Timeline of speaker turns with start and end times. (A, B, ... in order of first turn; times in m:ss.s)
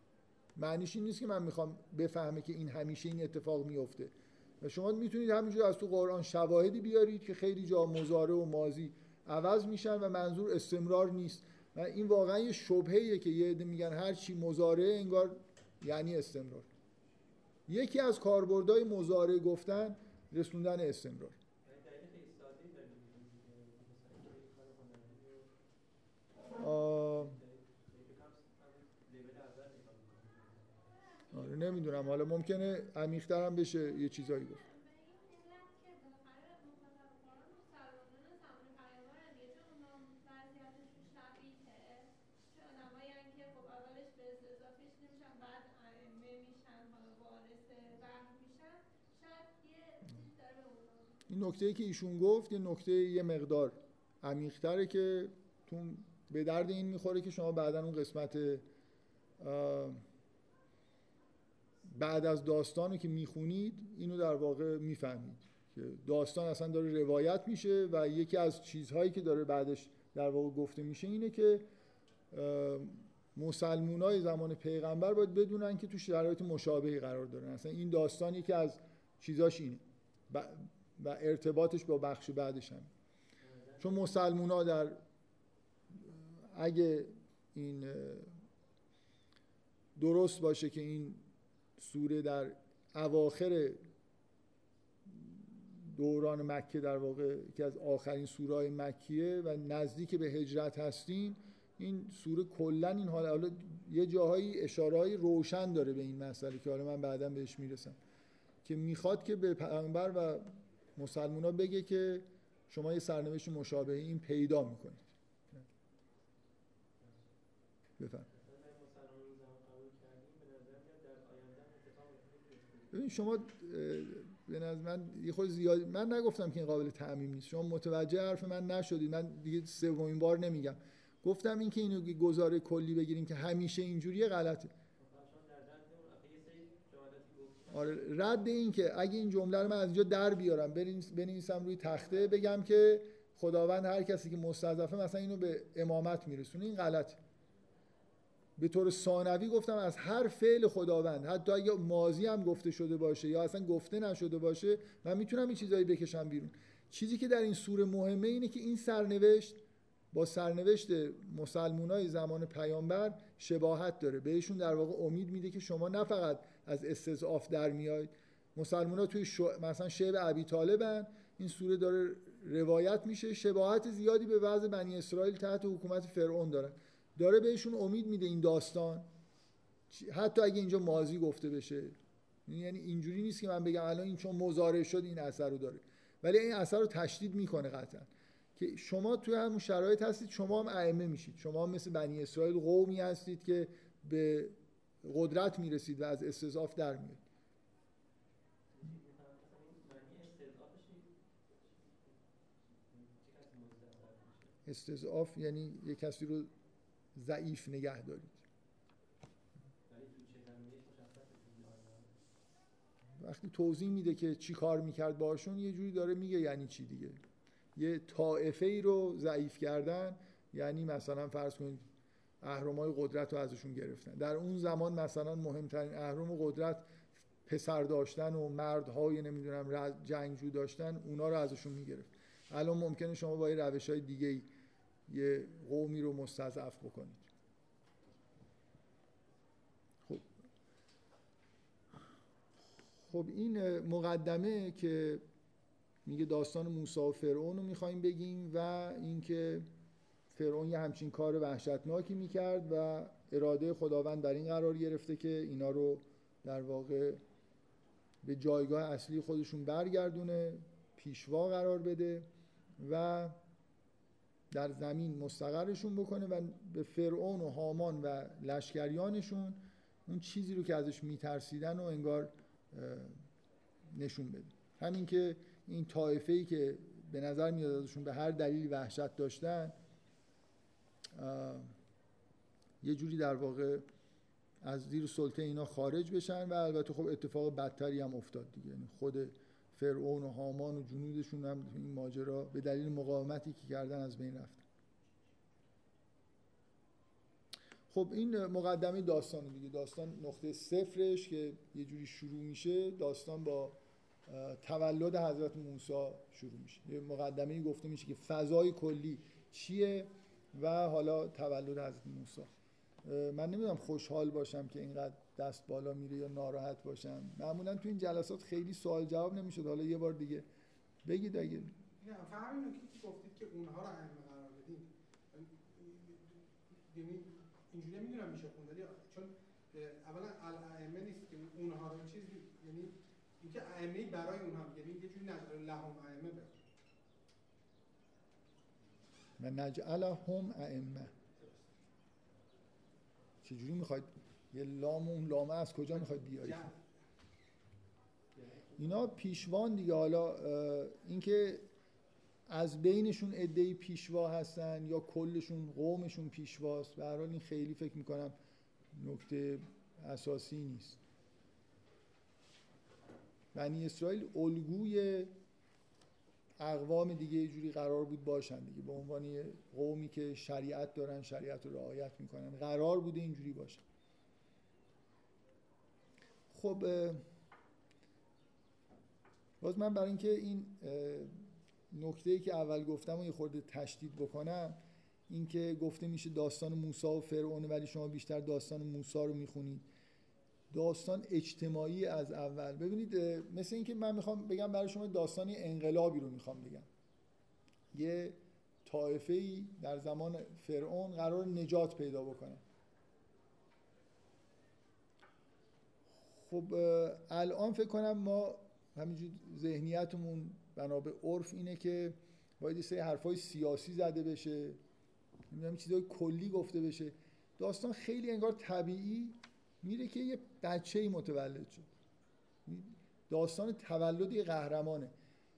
0:00.6-0:16.7 A
0:17.7-0:21.4 A
0:21.6-0:25.5 B
0:26.5-0:27.4 A
0:26.6-0:31.5 B
0:31.0-0:31.9 C
0:31.3-0:34.6 A
0:34.0-0:51.2 C
0:51.3-0:58.6 A
0:59.4-1:00.0 A
1:01.9-1:11.6 A
1:12.3-1:22.9 A
1:23.4-1:24.0 B
1:23.8-1:25.0 A
1:26.0-1:28.3 A
1:30.0-1:31.3 A
1:31.8-1:33.8 A
1:35.1-1:48.0 A
1:48.6-1:55.6 A
1:58.0-1:58.3 A
1:58.3-2:03.3 B
2:02.9-2:14.7 A
2:15.0-2:18.2 B
2:17.7-2:27.2 A
2:21.9-2:22.6 B
2:28.6-2:39.6 A
2:40.1-2:59.1 A
2:59.9-3:17.2 A
3:18.7-3:22.2 B
3:22.7-3:24.6 B
3:24.6-3:26.5 A
3:27.2-3:28.4 A
3:29.9-3:32.1 B
3:33.2-3:37.2 A
3:37.8-3:41.8 A
3:42.4-3:54.5 A
3:55.1-3:57.3 A
4:03.1-4:05.2 A
4:06.0-4:09.7 A
4:10.3-4:17.2 A
4:18.2-4:22.3 A
4:22.8-4:23.4 A
4:24.5-4:33.2 A
4:33.9-4:39.8 A
4:41.1-4:41.7 A
4:42.8-4:43.8 A
4:44.6-4:54.6 A
4:57.9-5:12.5 A
5:13.0-5:20.4 A
5:21.0-5:21.8 A
5:22.0-5:36.6 D
5:39.4-5:41.1 A
5:43.4-5:46.7 A
5:48.3-5:49.2 B
5:48.8-5:51.6 A
5:52.5-5:58.3 A
5:58.9-6:01.0 A
6:03.5-6:05.3 A
6:06.6-6:13.8 A
6:16.5-6:17.2 A
6:19.6-6:21.3 A
6:21.9-6:29.9 A
6:30.7-6:36.9 A
6:37.9-6:42.6 A
6:46.4-6:54.8 A
6:55.5-7:01.9 A
7:02.6-7:05.1 A